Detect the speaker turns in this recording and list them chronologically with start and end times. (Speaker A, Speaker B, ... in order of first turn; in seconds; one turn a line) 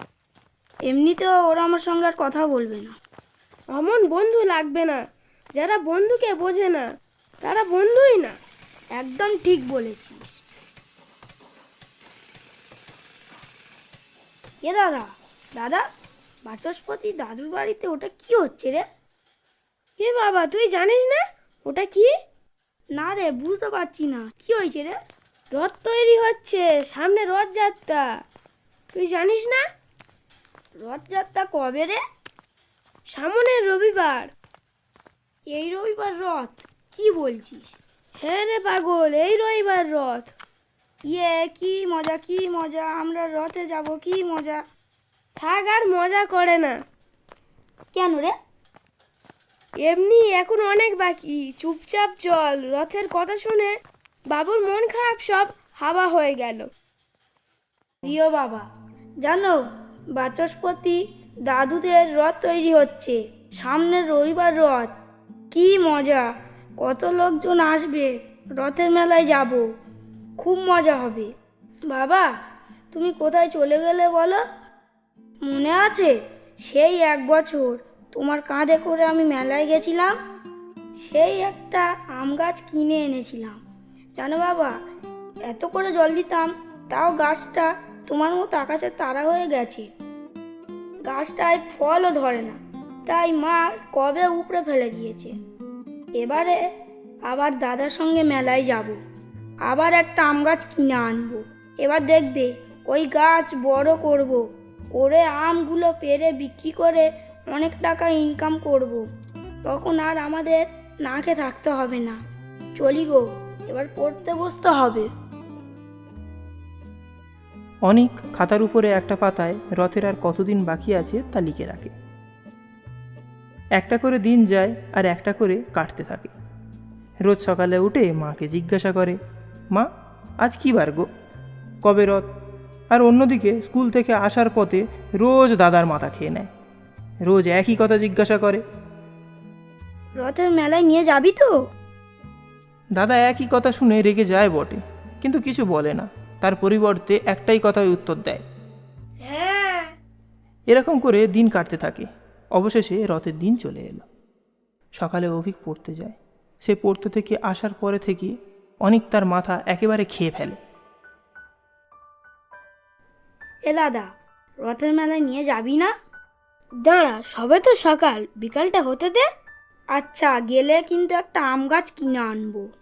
Speaker A: 0.9-3.0
Speaker B: 3.7-5.0
Speaker B: 5.5-6.8
Speaker B: 7.4-8.3
Speaker A: 9.0-10.2
Speaker A: 14.6-15.8
Speaker A: 16.5-18.8
Speaker B: 20.0-22.1
Speaker A: 22.9-25.0
Speaker B: 25.5-28.1
Speaker B: 28.9-29.6
Speaker A: 30.8-32.0
Speaker B: 33.1-34.3
Speaker A: 35.5-37.8
Speaker B: 38.2-40.3
Speaker A: 41.1-44.6
Speaker B: 45.4-46.7
Speaker A: 47.9-48.4
Speaker B: 49.8-53.7
Speaker B: 54.3-56.7
Speaker A: 58.0-58.6
Speaker A: 59.2-59.6
Speaker A: 60.2-65.0
Speaker A: 65.5-66.3
Speaker A: 66.8-69.6
Speaker A: 70.4-71.3
Speaker A: 71.9-72.3
Speaker A: 72.9-74.4
Speaker A: 75.4-80.2
Speaker A: 81.0-83.6
Speaker A: 84.2-84.8
Speaker A: 85.5-89.9
Speaker A: 91.1-95.3
Speaker A: 96.2-96.6
Speaker A: 97.3-99.0
Speaker A: 99.7-104.4
Speaker A: 105.0-109.0
Speaker A: 109.7-112.2
Speaker A: 112.8-115.1
Speaker C: 117.9-121.9
Speaker C: 123.8-126.3
Speaker C: 127.2-129.2
Speaker C: 130.4-131.1
Speaker C: 131.8-132.3
Speaker C: 132.9-136.5
Speaker C: 137.3-138.6
Speaker A: 140.2-141.5
Speaker C: 143.0-148.4
Speaker B: 149.2-149.9
Speaker C: 150.7-154.1
Speaker C: 155.0-160.6
Speaker A: 163.7-164.1
Speaker A: 164.6-165.9
Speaker B: 166.8-169.2
Speaker A: 169.9-172.7